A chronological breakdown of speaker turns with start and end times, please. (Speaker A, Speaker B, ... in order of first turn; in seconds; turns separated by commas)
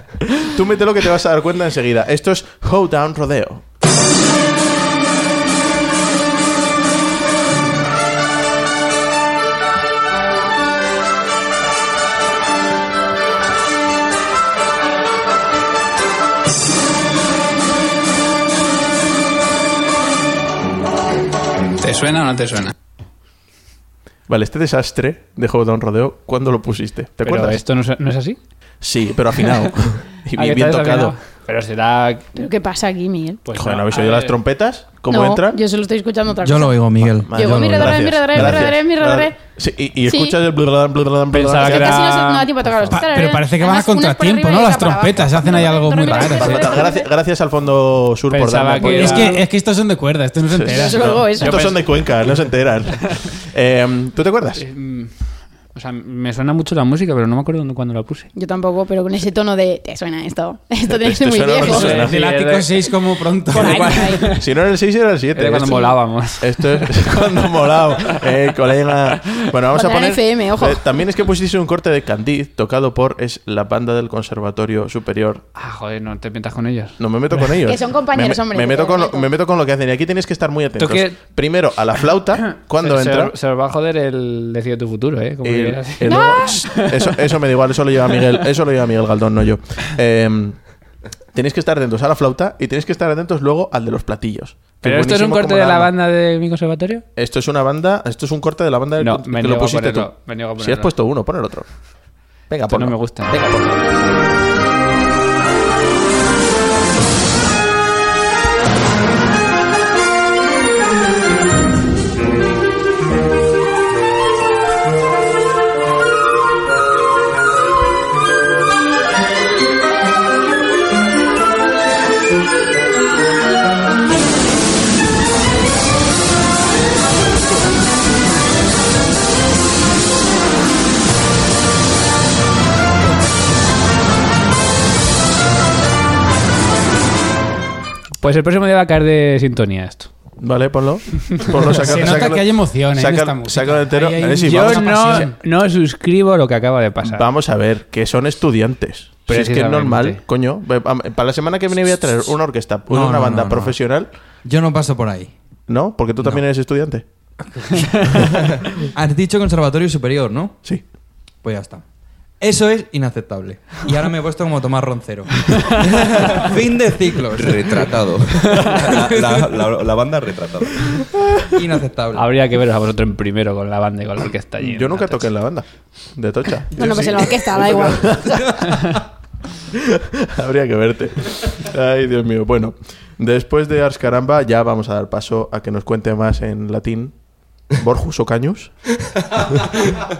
Speaker A: 0.4-3.6, Speaker B: 21.8-22.7, Speaker A: 24.3-27.6, Speaker B: 27.2-28.4, Speaker A: 28.8-31.1, Speaker B: 30.3-32.3, Speaker C: 32.4-33.4, Speaker B: 33.4-34.4, Speaker A: 33.5-35.6, Speaker C: 35.1-39.4, Speaker D: 36.4-38.6, Speaker A: 37.0-42.0, Speaker C: 40.0-40.4, Speaker B: 41.3-43.0, Speaker C: 41.6-47.1, Speaker E: 42.8-46.7, Speaker A: 46.1-49.3, Speaker B: 48.3-49.4, Speaker E: 48.8-51.2, Speaker A: 50.5-54.6, Speaker C: 50.6-51.8, Speaker B: 51.4-52.3, Speaker B: 54.6-58.3, Speaker C: 58.3-62.0, Speaker A: 60.9-62.2, Speaker B: 61.6-64.4, Speaker E: 61.9-64.1, Speaker C: 63.5-64.3, Speaker A: 64.3-75.4, Speaker B: 65.3-68.3, Speaker C: 69.7-70.9, Speaker B: 75.5-77.5, Speaker A: 77.0-83.3, Speaker C: 77.6-79.3, Speaker B: 80.8-81.2, Speaker B: 82.8-87.1, Speaker A: 85.4-90.6, Speaker C: 86.1-86.6, Speaker A: 91.3-95.9, Speaker B: 94.8-97.0, Speaker A: 97.1-101.7, Speaker B: 99.0-100.9, Speaker A: 102.5-103.3, Speaker B: 102.7-103.9, Speaker B: 138.2-140.1, Speaker A: 140.4-145.3, Speaker B: 141.5-142.2, Speaker E: 141.7-145.3, Speaker B: 144.4-147.2, Speaker A: 147.0-154.1, Speaker B: 149.3-150.2, Speaker D: 152.9-153.8, Speaker D: 154.4-155.3, Speaker A: 155.7-157.1, Speaker D: 158.9-160.6, Speaker D: 161.4-161.8, Speaker D: 162.4-167.8, Speaker F: 167.3-171.1, Speaker D: 171.5-172.3, Speaker B: 172.1-175.3, Speaker A: 174.6-179.0, Speaker C: 176.7-178.6, Speaker A: 179.7-187.2, Speaker A: 187.7-188.8